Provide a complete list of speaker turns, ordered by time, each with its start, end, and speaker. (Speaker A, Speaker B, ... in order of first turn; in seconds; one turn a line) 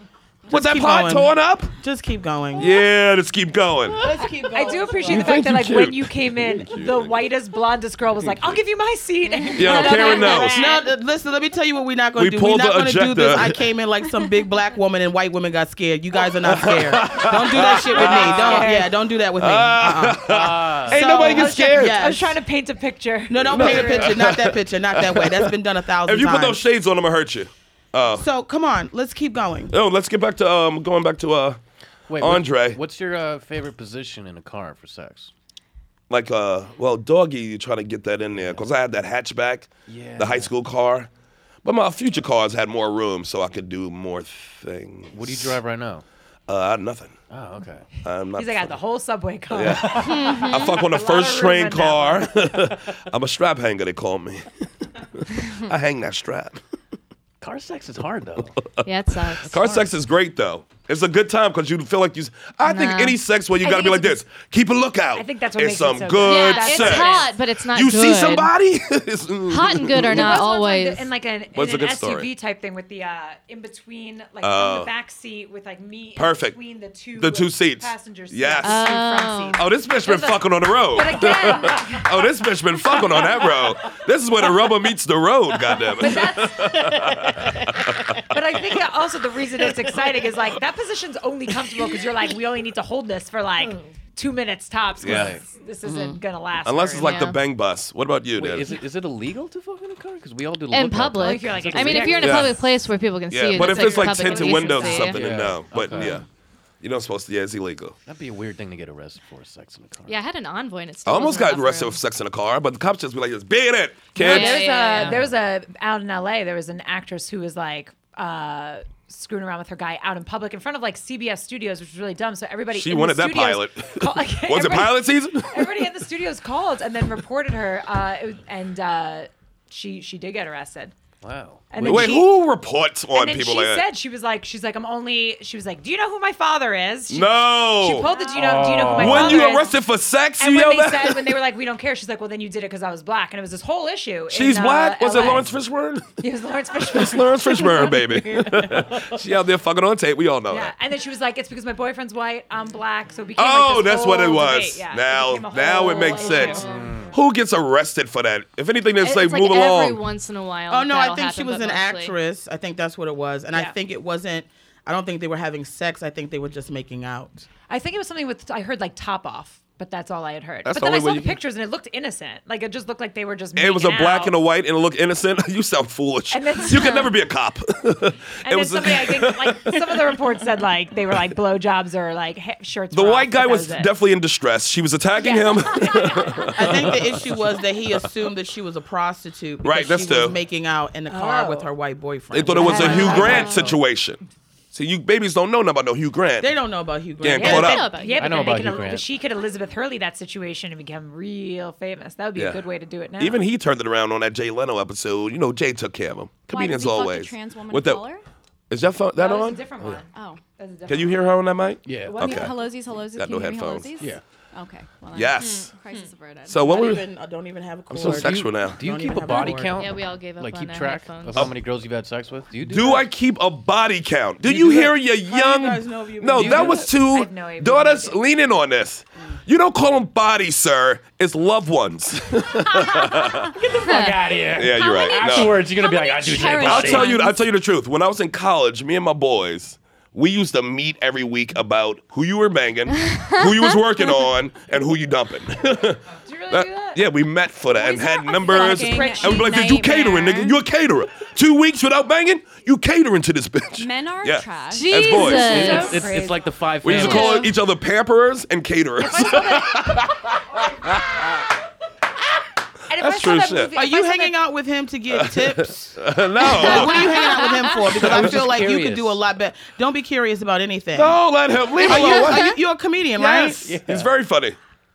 Speaker A: 0.5-2.8
Speaker B: 0.5-1.7
Speaker B: 2.6-4.0
Speaker A: 4.0-5.4
Speaker C: 4.4-10.8
Speaker B: 5.1-7.2
Speaker D: 9.4-10.4
Speaker B: 9.5-10.8
Speaker A: 10.4-20.3
Speaker B: 12.2-13.6
Speaker B: 16.4-18.8
Speaker C: 17.9-18.9
Speaker B: 19.4-22.0
Speaker E: 20.3-21.0
Speaker A: 20.9-22.4
Speaker C: 21.1-24.2
Speaker A: 23.3-26.6
Speaker B: 23.4-25.5
Speaker B: 26.0-28.2
Speaker A: 28.2-29.8
Speaker B: 29.7-31.6
Speaker E: 32.1-35.3
Speaker B: 32.2-32.8
Speaker B: 36.1-41.1
Speaker E: 38.4-38.6
Speaker E: 39.9-40.5
Speaker B: 41.6-45.6
Speaker E: 45.1-46.0
Speaker B: 46.5-47.1
Speaker E: 47.3-47.9
Speaker B: 48.0-48.8
Speaker C: 48.4-52.4
Speaker B: 49.5-54.7
Speaker F: 50.1-50.8
Speaker B: 55.2-56.6
Speaker E: 57.4-58.6
Speaker F: 58.9-59.9
Speaker B: 59.4-70.4
Speaker F: 62.7-63.2
Speaker C: 63.6-64.2
Speaker C: 65.2-67.4
Speaker F: 66.2-68.5
Speaker F: 69.5-71.1
Speaker C: 70.0-82.2
Speaker B: 71.5-72.3
Speaker B: 74.4-74.9
Speaker B: 76.2-76.6
Speaker B: 77.2-79.0
Speaker F: 78.6-79.7
Speaker B: 79.5-88.0
Speaker C: 82.9-83.3
Speaker C: 86.0-87.1
Speaker C: 88.3-97.2
Speaker B: 95.0-95.4
Speaker E: 95.0-95.4
Speaker A: 95.8-96.2
Speaker B: 96.7-98.8
Speaker F: 97.0-97.4
Speaker E: 98.4-102.6
Speaker F: 100.7-105.2
Speaker C: 101.2-102.5
Speaker B: 102.2-102.6
Speaker B: 103.3-106.2
Speaker D: 103.6-105.0
Speaker C: 104.0-105.0
Speaker E: 105.0-106.2
Speaker B: 106.8-108.0
Speaker E: 108.0-110.2
Speaker F: 110.1-112.0
Speaker B: 111.0-114.6
Speaker C: 114.2-130.9
Speaker F: 114.2-115.2
Speaker E: 115.0-115.3
Speaker B: 122.7-125.7
Speaker E: 131.2-132.2
Speaker C: 131.7-132.3
Speaker B: 131.8-133.8
Speaker C: 133.1-139.7
Speaker B: 137.1-138.1
Speaker D: 138.0-138.6
Speaker E: 138.3-139.5
Speaker B: 138.9-141.3
Speaker C: 140.4-145.6
Speaker B: 144.3-146.2
Speaker C: 146.2-147.9
Speaker B: 146.8-150.7
Speaker C: 150.5-156.8
Speaker B: 153.4-160.0
Speaker D: 156.4-156.7
Speaker E: 156.6-157.1
Speaker F: 159.0-162.2
Speaker A: 160.7-167.5
Speaker C: 167.7-174.4
Speaker B: 170.7-171.4
Speaker B: 173.6-179.9
Speaker C: 176.3-177.1
Speaker C: 178.4-183.9
Speaker B: 182.9-187.0
Speaker C: 185.2-186.5
Speaker A: 186.6-193.8
Speaker B: 189.6-190.4
Speaker C: 191.1-191.7
Speaker B: 192.3-194.2
Speaker C: 192.6-193.6
Speaker F: 192.9-193.7
Speaker B: 194.7-196.6
Speaker A: 196.4-197.8
Speaker B: 197.2-197.9
Speaker F: 197.4-198.9
Speaker C: 197.5-203.4
Speaker E: 198.2-199.1
Speaker B: 202.4-202.6
Speaker B: 203.2-208.1
Speaker D: 206.5-208.2
Speaker B: 208.7-210.0
Speaker C: 209.2-211.4
Speaker D: 210.1-210.4
Speaker B: 210.9-212.6
Speaker E: 211.8-212.5
Speaker D: 211.9-216.9
Speaker B: 213.1-213.9
Speaker B: 215.1-215.7
Speaker B: 216.5-217.1
Speaker A: 216.6-219.8
Speaker B: 217.9-218.8
Speaker E: 218.0-223.1
Speaker F: 219.8-221.5
Speaker B: 222.7-233.5
Speaker A: 224.4-226.9
Speaker E: 226.4-226.9
Speaker C: 227.1-228.2
Speaker E: 233.6-237.1
Speaker F: 233.9-234.2
Speaker B: 234.6-235.6
Speaker D: 234.7-237.4
Speaker B: 236.6-255.5
Speaker F: 243.0-243.8
Speaker C: 246.2-247.0
Speaker D: 247.7-250.6
Speaker C: 248.5-249.8
Speaker D: 253.8-255.8
Speaker F: 254.7-256.0
Speaker E: 255.3-257.5
Speaker C: 255.4-257.3
Speaker B: 256.8-261.2
Speaker F: 256.9-257.5
Speaker C: 259.0-260.0
Speaker C: 262.9-264.4
Speaker B: 263.0-263.7
Speaker A: 263.7-266.0
Speaker B: 265.1-267.4
Speaker A: 266.6-271.2
Speaker E: 268.0-269.2
Speaker B: 268.0-268.6
Speaker B: 270.9-272.6
Speaker A: 271.8-273.7
Speaker F: 272.1-272.4
Speaker B: 273.2-274.6
Speaker E: 273.6-274.1